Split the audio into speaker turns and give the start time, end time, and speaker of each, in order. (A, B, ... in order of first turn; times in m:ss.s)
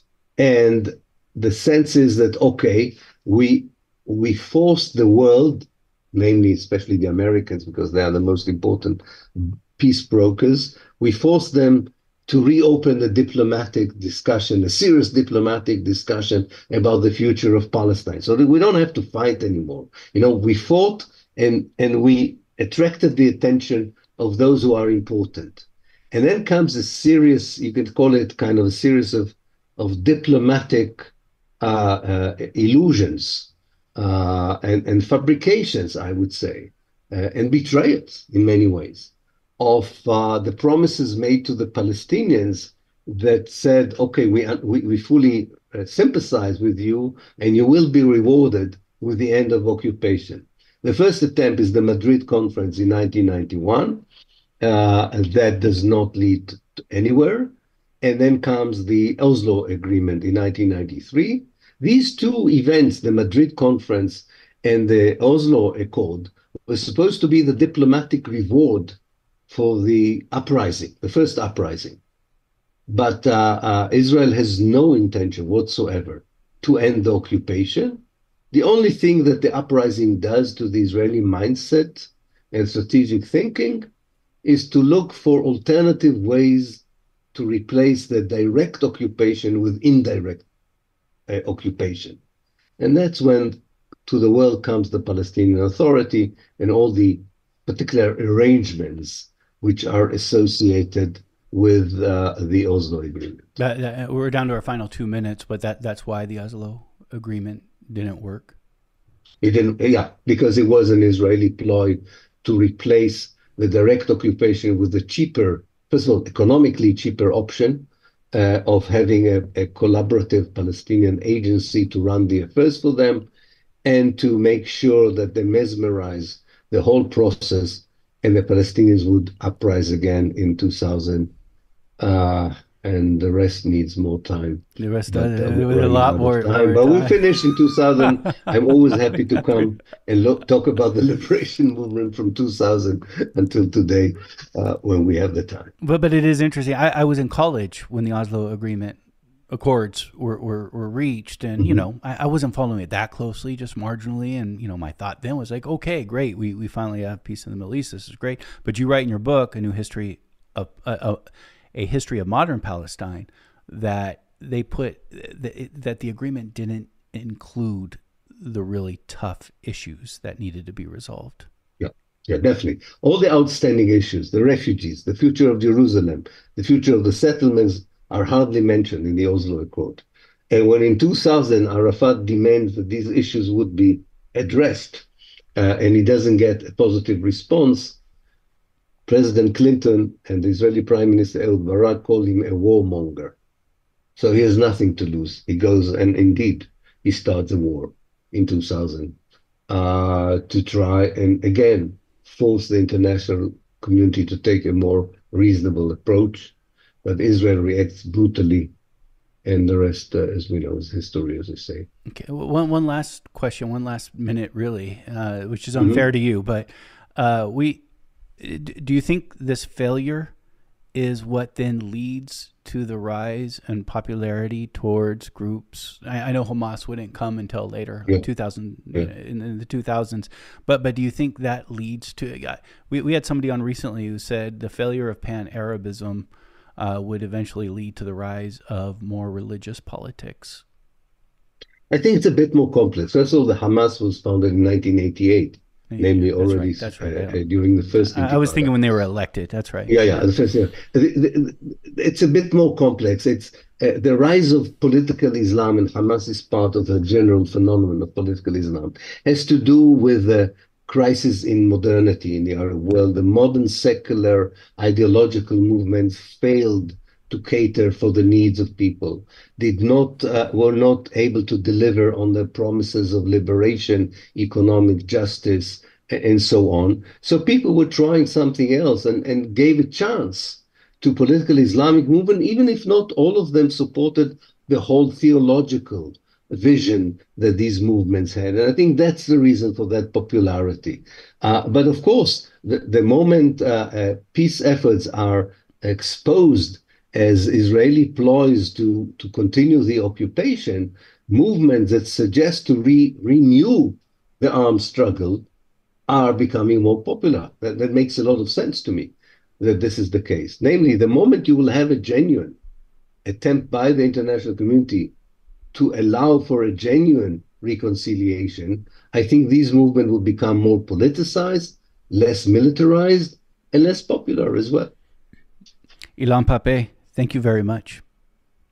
0:00.4-0:54.0 A
0:54.6-1:09.0 A
1:09.5-1:12.0 A
1:12.9-1:23.8 A
1:24.4-1:26.8 A
1:27.3-1:30.4 A
1:31.3-1:32.2 A
1:32.8-1:43.6 A
1:43.6-1:48.6 B
1:49.4-2:03.3 A
2:03.8-2:11.3 A
2:12.0-2:25.7 A
2:14.8-2:17.3 B
2:25.8-2:29.0 B
2:29.5-2:41.2 B
2:41.7-2:51.5 B
2:51.8-3:08.0 A
3:09.1-3:13.4 A
3:14.2-3:19.2 A
3:19.7-3:28.7 A
3:29.4-3:31.9 A
3:32.1-3:37.8 B
3:35.8-3:36.0 A
3:38.4-3:40.3 B
3:40.9-4:00.6 B
4:01.9-4:08.7 A
4:05.9-4:10.2 B
4:09.9-5:05.5 A
5:06.1-5:12.6 A
5:13.2-5:15.1 A
5:15.7-5:24.9 A
5:26.2-5:28.0 B